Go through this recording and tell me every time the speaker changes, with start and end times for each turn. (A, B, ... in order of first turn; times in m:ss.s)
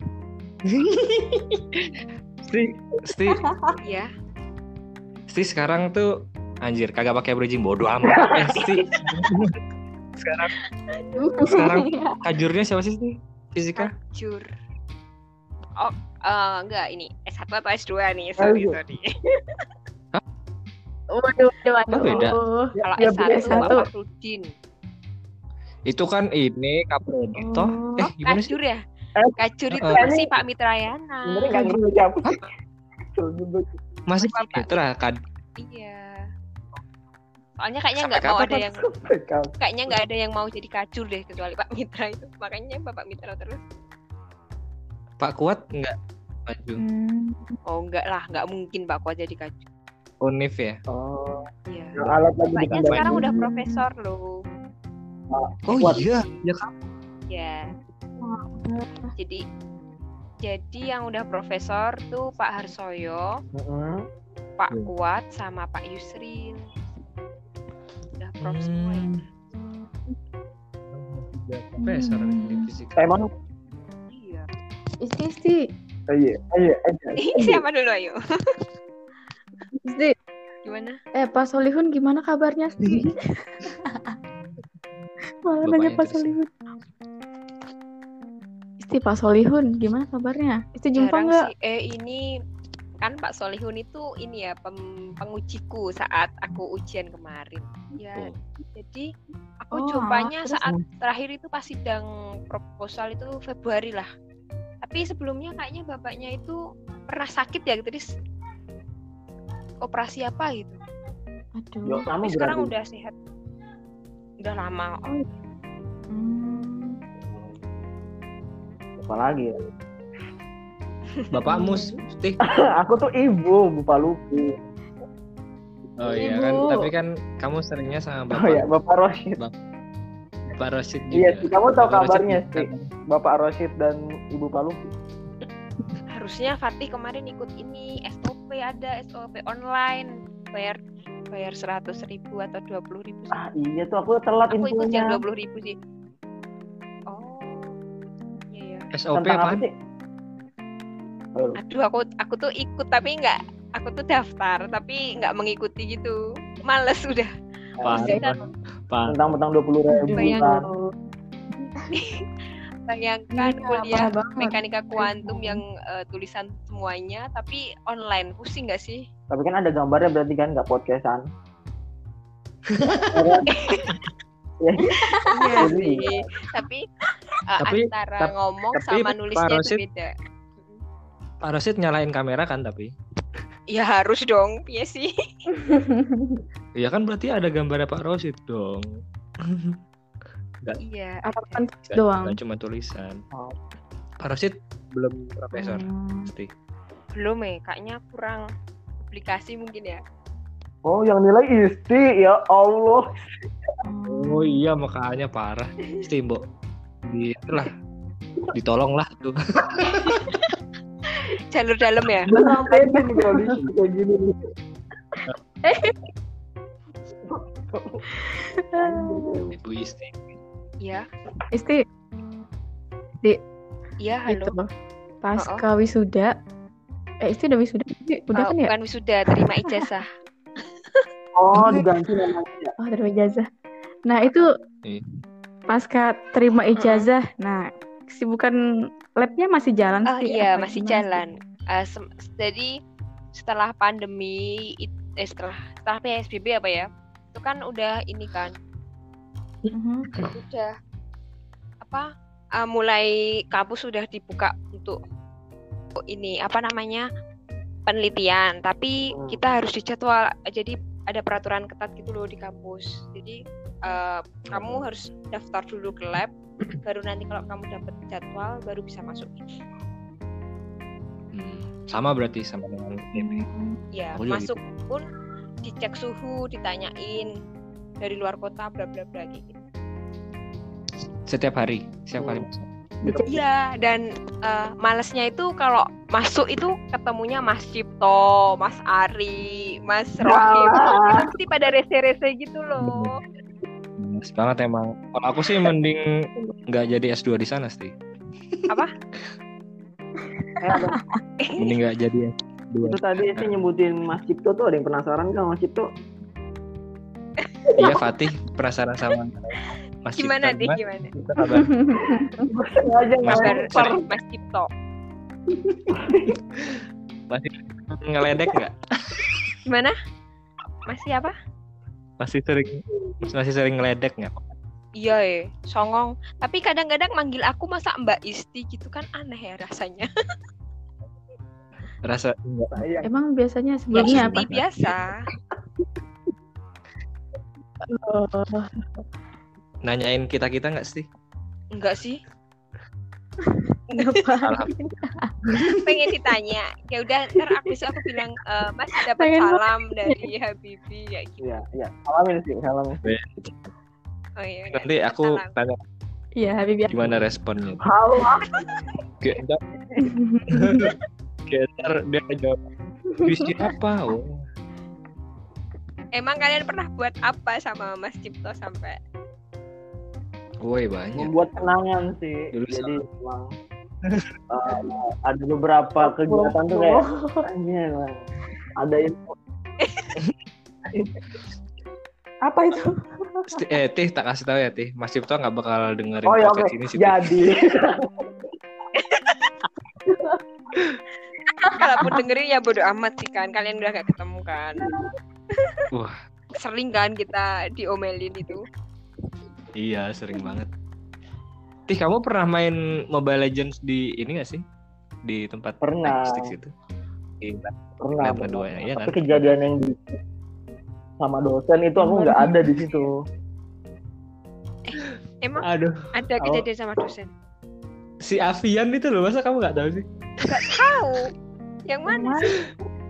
0:00.7-0:03.4 A
0:03.3-0:03.8 B
0:03.8-0:04.1 C
0:05.3-0:06.1 A
0:06.6-0:09.6 A
0:08.0-0:08.8 D
0:10.2-0:10.5 A
0:11.1-0:12.2 B
0:11.4-0:13.9 A
0:13.8-0:14.5 C
0:15.8-0:19.6 C
0:18.4-0:18.8 D
0:21.1-0:23.9 B
0:21.9-0:22.4 A
0:22.8-0:23.8 D
0:22.8-0:24.5 C
0:25.9-0:28.5 A
0:27.4-0:28.1 B
0:28.2-0:28.8 C
0:29.2-0:30.4 D
0:29.4-0:31.6 C
0:29.7-0:30.0 A
0:31.2-0:32.4 D
0:31.5-0:31.9 B
0:33.1-0:33.7 D
0:34.1-0:35.2 A
0:34.2-0:34.8 C
0:35.6-0:36.3 C
0:37.6-0:38.8 C
0:38.1-0:38.5 A
0:38.5-0:39.9 D
0:39.6-0:43.6 C
0:45.2-0:45.9 A
0:46.5-0:46.8 A
0:46.8-0:47.6 B
0:47.6-0:49.6 C
0:50.2-0:50.8 A
0:50.9-0:51.4 D
0:51.7-0:52.0 C
0:52.0-0:53.4 D
0:52.0-0:53.3 A
0:52.5-0:54.4 C
0:53.3-0:53.8 B
0:55.3-0:56.0 D
0:55.7-0:56.7 A
0:55.8-0:56.4 C
0:57.3-0:57.7 C
0:58.2-0:59.1 B
0:59.2-0:59.4 C
1:00.4-1:03.3 C
1:03.5-1:04.0 D
1:04.6-1:06.6 C
1:08.2-1:09.1 C
1:08.4-1:09.2 A
1:10.9-1:13.1 A
1:11.8-1:12.7 B
1:13.0-1:13.3 D
1:14.0-1:14.5 C
1:15.0-1:15.6 B
1:16.1-1:17.6 D
1:17.2-1:18.6 C
1:19.8-1:20.1 B
1:20.6-1:21.0 C
1:21.1-1:24.1 B
1:25.5-1:26.5 B
1:25.6-1:26.4 A
1:28.8-1:31.4 B
1:31.0-1:32.3 C
1:33.0-1:39.1 C
1:39.6-1:44.1 C
1:39.7-1:40.8 B
1:44.8-1:48.1 C
1:49.8-1:50.8 C
1:51.6-1:52.1 B
1:51.8-1:52.7 D
1:52.2-1:53.2 C
1:54.4-1:55.1 C
1:56.1-1:57.0 B
1:59.0-1:59.6 D
2:01.3-2:02.4 A
2:01.5-2:02.0 B
2:02.4-2:04.6 D
2:06.0-2:08.7 A
2:06.0-2:06.9 B
2:08.3-2:09.4 D
2:10.5-2:12.9 A
2:11.1-2:14.9 D
2:16.1-2:23.4 C
2:23.3-2:25.2 D
2:24.5-2:25.8 C
2:27.1-2:27.7 C
2:28.5-2:28.9 C
2:28.9-2:29.6 A
2:29.1-2:29.7 D
2:31.6-2:37.3 C
2:37.8-2:38.2 D
2:37.8-2:39.4 A
2:37.8-2:38.4 C
2:39.1-2:40.7 D
2:39.9-2:40.9 B
2:40.1-2:40.5 C
2:41.9-2:42.2 C
2:42.9-2:49.0 C
2:43.3-2:45.6 B
2:49.3-2:51.2 D
2:52.7-2:53.4 A
2:53.1-2:53.5 D
2:53.5-2:54.0 C
2:54.6-2:56.2 D
2:54.9-2:55.7 B
2:55.3-2:56.8 C
2:57.4-3:00.8 C
2:57.6-2:59.8 A
3:01.4-3:02.9 A
3:03.7-3:05.1 C
3:05.5-3:06.4 B
3:06.8-3:08.9 A
3:09.4-3:09.8 A
3:10.8-3:11.6 C
3:11.3-3:12.4 B
3:11.8-3:13.2 A
3:14.2-3:16.5 A
3:15.5-3:16.3 B
3:17.2-3:18.4 C
3:19.0-3:20.0 C
3:20.8-3:23.1 D
3:23.8-3:24.6 B
3:24.1-3:26.4 A
3:27.0-3:27.7 A
3:28.5-3:30.4 A
3:31.1-3:32.3 C
3:32.3-3:33.4 B
3:32.3-3:34.5 D
3:35.6-3:35.9 B
3:37.3-3:38.0 D
3:38.1-3:39.4 B
3:38.8-3:39.5 D
3:39.5-3:40.2 A
3:40.8-3:41.0 C
3:41.5-3:41.8 B
3:44.0-3:44.6 C
3:44.3-3:44.6 B
3:45.2-3:46.3 B
3:45.4-3:45.6 C
3:47.2-3:48.7 B
3:48.3-3:50.1 C
3:51.3-3:52.7 D
3:52.8-3:53.4 B
3:54.1-3:54.5 B
3:55.7-3:58.6 B
3:56.8-3:57.1 C
3:59.2-4:01.2 B
4:00.1-4:02.7 C
4:03.3-4:08.6 C
4:09.7-4:10.1 B
4:10.3-4:10.8 C
4:11.8-4:15.0 C
4:16.1-4:17.0 C
4:17.9-4:29.6 C
4:19.1-4:19.4 D
4:24.5-4:24.9 A
4:31.3-4:33.4 A
4:33.1-4:33.8 B
4:33.9-4:35.1 C
4:34.1-4:34.5 A
4:35.6-4:37.3 C
4:38.0-4:39.6 C
4:41.3-4:42.7 A
4:42.2-4:42.4 D
4:43.0-4:43.4 B
4:43.2-4:53.2 C
4:50.2-4:51.3 D
4:52.8-4:53.2 A
4:54.0-4:56.0 A
4:56.7-4:57.9 A
4:58.5-4:58.8 A
4:58.7-4:58.9 C
5:00.5-5:01.1 B
5:00.6-5:01.0 D
5:01.4-5:01.8 C
5:01.6-5:03.6 A
5:02.8-5:05.9 D
5:07.8-5:11.7 A
5:10.2-5:11.1 C
5:11.4-5:12.5 B
5:12.5-5:14.0 D
5:13.2-5:14.0 A
5:13.3-5:14.7 C
5:15.9-5:16.4 D
5:16.6-5:19.6 A
5:19.7-5:19.9 C
5:20.8-5:21.3 C
5:22.2-5:24.5 A
5:25.0-5:30.1 C
5:32.0-5:32.8 A
5:32.7-5:33.1 D
5:33.0-5:34.5 B
5:33.9-5:35.0 A
5:33.9-5:35.1 C
5:37.8-5:38.8 B
5:39.8-5:41.0 A
5:41.7-5:42.2 C
5:43.5-5:45.6 B
5:44.4-5:45.6 A
5:45.8-5:51.5 C
5:49.0-5:50.2 B
5:51.4-5:53.0 D
5:53.0-5:53.7 A
5:54.4-5:55.5 C
5:54.7-5:55.8 A
5:56.4-5:57.1 B
5:56.9-5:57.8 A
5:57.8-5:58.5 D
5:59.2-5:59.6 A
6:00.0-6:00.9 B
6:00.6-6:00.9 A
6:01.5-6:02.6 A
6:03.2-6:03.6 B
6:03.2-6:04.4 A
6:06.1-6:09.0 C
6:10.6-6:11.3 A
6:11.2-6:13.5 D
6:12.5-6:13.0 A
6:14.5-6:18.2 D
6:16.0-6:17.5 B
6:18.8-6:19.3 D
6:19.8-6:20.1 C
6:20.9-6:21.2 D
6:22.4-6:23.6 B
6:23.5-6:27.3 A
6:26.2-6:28.3 D
6:29.0-6:29.5 C
6:31.6-6:32.2 B
6:31.7-6:34.9 C
6:35.5-6:35.8 C
6:35.9-6:36.2 A
6:36.5-6:38.6 C
6:39.8-6:40.7 A
6:41.9-6:44.6 A
6:45.2-6:46.7 A
6:45.8-6:46.5 D
6:47.4-6:49.6 A
6:48.0-6:50.2 D
6:51.2-6:53.1 D
6:52.0-6:52.8 B
6:54.8-6:57.3 C
6:55.6-6:56.6 A
6:58.2-7:00.8 A
7:00.4-7:01.3 C
7:01.9-7:02.5 C
7:02.1-7:02.6 B